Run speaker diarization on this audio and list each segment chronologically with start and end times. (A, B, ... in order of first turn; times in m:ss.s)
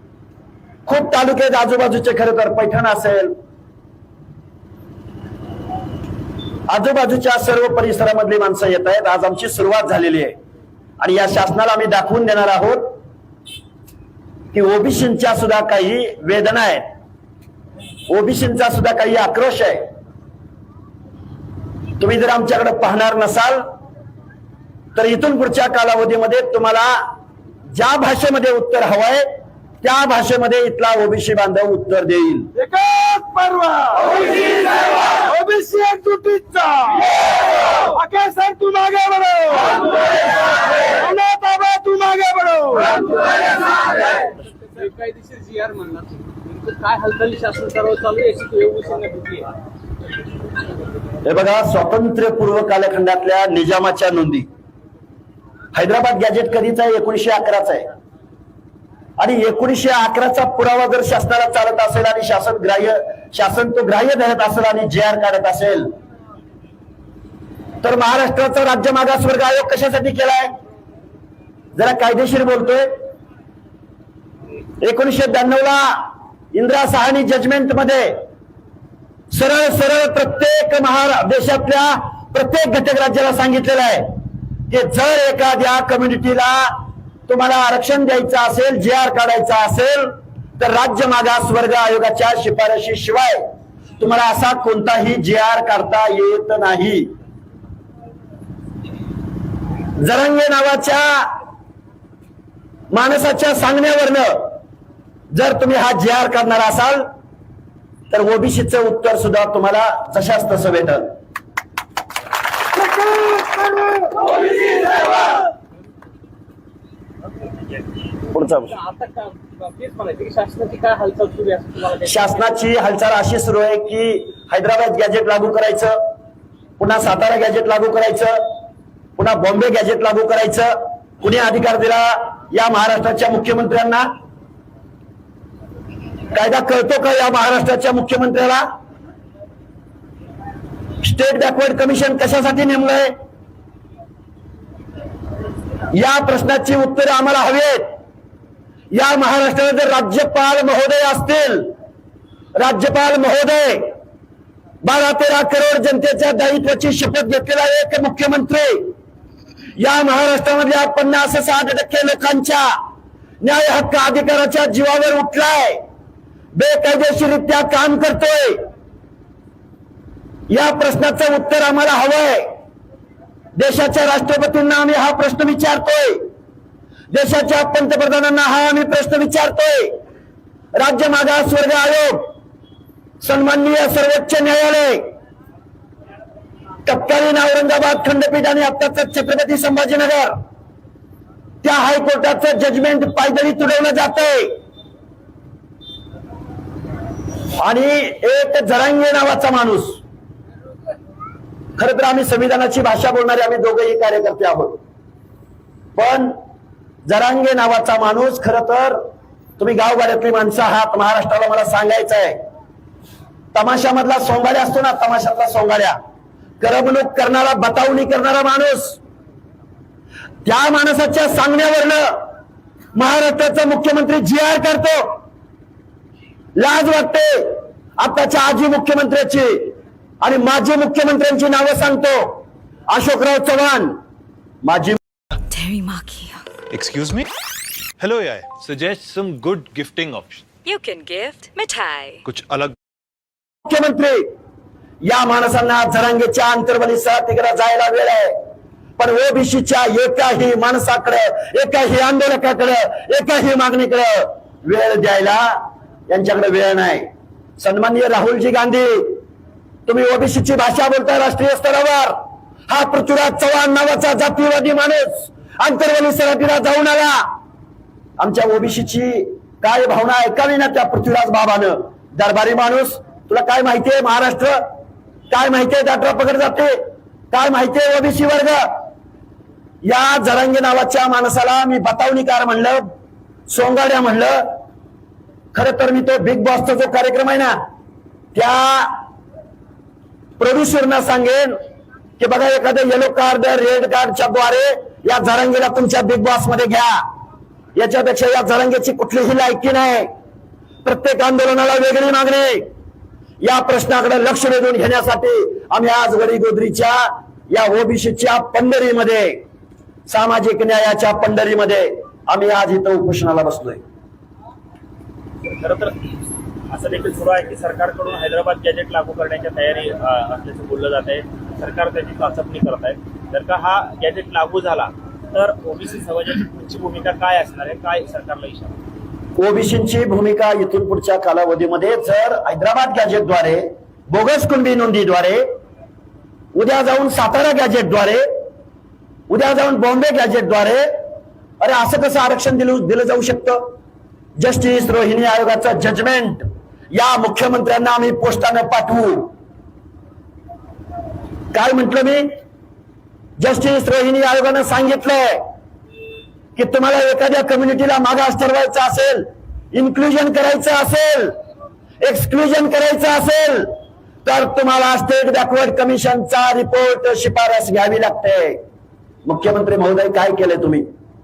0:00.9-0:03.3 A
0:06.7-0:10.4 A
0:11.0-0:13.0 A
0:14.5-0:16.9 A
0:18.1-0:19.8 A
0:22.0-0:23.6 A
0:25.0-0:27.0 A
0:27.7-0:29.3 A
0:29.8-0:32.5 A
0:32.6-0:33.9 B
0:33.7-0:35.2 C
0:35.2-0:37.0 B
0:37.7-0:38.3 C
0:38.1-0:39.6 B
0:39.6-0:40.0 C
0:40.9-0:42.8 B
0:42.8-0:49.5 C
0:51.2-0:54.5 A
0:55.7-0:57.9 A
0:59.2-1:05.9 A
1:07.8-1:10.5 A
1:11.8-1:12.9 A
1:14.8-1:18.2 A
1:19.3-1:24.2 A
1:24.7-1:33.4 A
1:34.0-1:37.1 A
1:40.0-1:41.4 A
1:42.9-1:44.6 A
1:45.3-1:47.1 A
1:48.1-1:51.1 A
1:52.8-1:54.9 C
1:58.3-1:58.7 A
1:58.7-2:02.4 C
2:02.1-2:06.0 A
2:06.8-2:08.4 A
2:09.2-2:14.1 A
2:16.3-2:18.7 A
2:21.0-2:23.1 A
2:25.9-2:27.9 A
2:28.9-2:31.7 A
2:32.6-2:33.9 A
2:34.8-2:38.9 A
2:39.8-2:42.7 A
2:43.4-2:45.8 A
2:46.6-2:48.6 A
2:50.5-2:52.5 A
2:53.6-2:56.3 A
2:57.1-3:00.0 A
3:00.8-3:02.3 A
3:03.2-3:05.1 A
3:06.9-3:10.3 A
3:11.6-3:14.6 A
3:17.6-3:20.0 A
3:21.8-3:24.8 A
3:26.0-3:26.4 A
3:27.1-3:29.0 A
3:29.6-3:32.4 A
3:33.5-3:36.0 A
3:36.6-3:39.0 A
3:40.4-3:42.2 A
3:42.9-3:45.2 A
3:46.6-3:54.0 A
3:54.6-3:55.0 A
3:55.5-3:56.4 D
3:56.8-3:57.2 E
3:58.0-4:00.4 E
4:00.6-4:02.2 D
4:02.3-4:02.7 E
4:03.7-4:04.3 A
4:05.0-4:08.3 A
4:09.0-4:19.2 A
4:19.9-4:22.2 A
4:22.7-4:27.3 A
4:28.2-4:34.6 A
4:35.3-4:36.8 A
4:37.3-4:38.7 A
4:39.8-4:42.9 A
4:43.5-4:44.5 A
4:45.5-4:47.6 A
4:48.3-4:49.0 A
4:50.4-4:51.5 A
4:52.2-4:57.0 A
4:57.8-5:00.1 A
5:00.8-5:02.7 A
5:03.4-5:09.4 A
5:10.1-5:13.8 A
5:15.5-5:15.9 F
5:16.7-5:28.8 F
5:29.4-5:35.4 A
5:36.6-5:38.2 A
5:39.3-5:40.9 A
5:41.6-5:43.7 A
5:44.4-5:49.3 A
5:51.5-5:52.3 A
5:53.4-5:55.4 A
5:56.6-6:01.4 A
6:02.0-6:03.7 A
6:04.2-6:08.6 A
6:09.2-6:10.9 A